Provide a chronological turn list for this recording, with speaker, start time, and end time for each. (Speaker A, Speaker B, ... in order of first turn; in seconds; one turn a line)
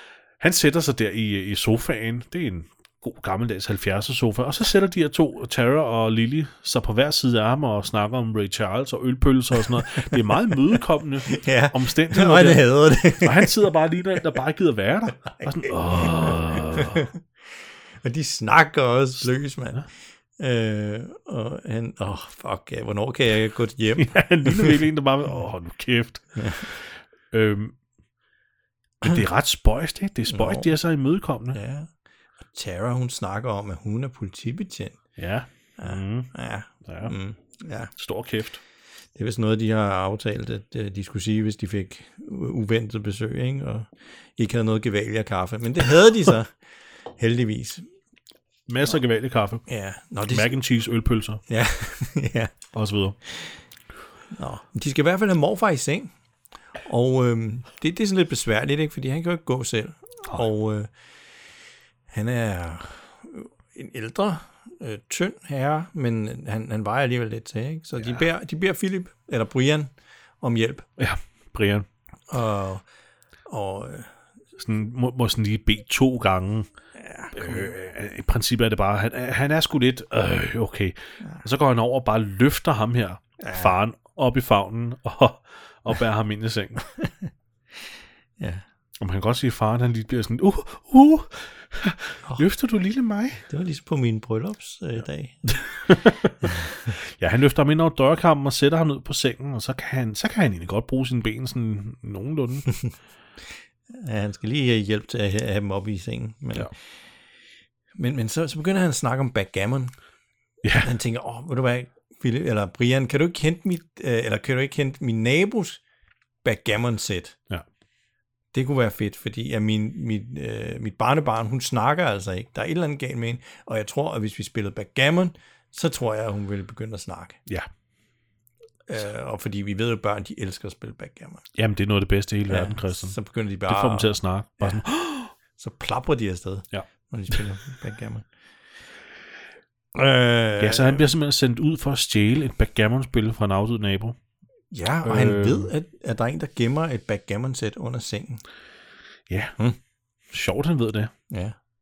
Speaker A: 0.4-17.0
Speaker B: 9.9-10.4
Speaker B: 11.3-13.6
Speaker B: 15.4-17.2
Speaker B: 18.0-19.8
Speaker A: 19.2-19.9
Speaker B: 20.4-24.8
Speaker A: 23.9-27.7
Speaker B: 26.4-26.6
Speaker A: 29.0-31.6
Speaker B: 30.3-30.7
Speaker B: 31.5-31.9
Speaker B: 32.4-35.0
Speaker A: 35.2-36.3
Speaker B: 35.8-37.9
Speaker A: 36.8-37.1
Speaker A: 38.0-38.6
Speaker B: 39.1-46.5
Speaker B: 47.2-47.8
Speaker A: 48.7-49.6
Speaker B: 49.7-50.5
Speaker A: 50.3-51.4
Speaker B: 51.5-52.5
Speaker A: 52.7-53.2
Speaker B: 54.3-56.1
Speaker B: 56.8-60.9
Speaker B: 62.1-70.8
Speaker A: 71.0-71.8
Speaker B: 72.3-72.8
Speaker B: 73.5-74.1
Speaker A: 74.6-76.7
Speaker B: 77.0-77.7
Speaker A: 77.3-86.9
Speaker B: 83.4-83.8
Speaker B: 88.4-88.6
Speaker A: 89.0-93.5
Speaker B: 93.5-95.5
Speaker A: 95.5-102.7
Speaker B: 96.4-96.9
Speaker B: 103.9-106.7
Speaker B: 108.0-109.9
Speaker A: 110.6-110.9
Speaker B: 110.8-115.8
Speaker B: 116.4-117.4
Speaker B: 118.5-127.4
Speaker B: 128.9-131.4
Speaker A: 131.5-133.2
Speaker B: 132.5-134.8
Speaker A: 133.7-135.3
Speaker B: 135.6-138.2
Speaker B: 139.9-141.1
Speaker A: 140.6-144.2
Speaker B: 144.7-148.4
Speaker A: 145.0-145.7
Speaker A: 149.3-149.6
Speaker A: 150.3-151.1
Speaker B: 151.3-151.6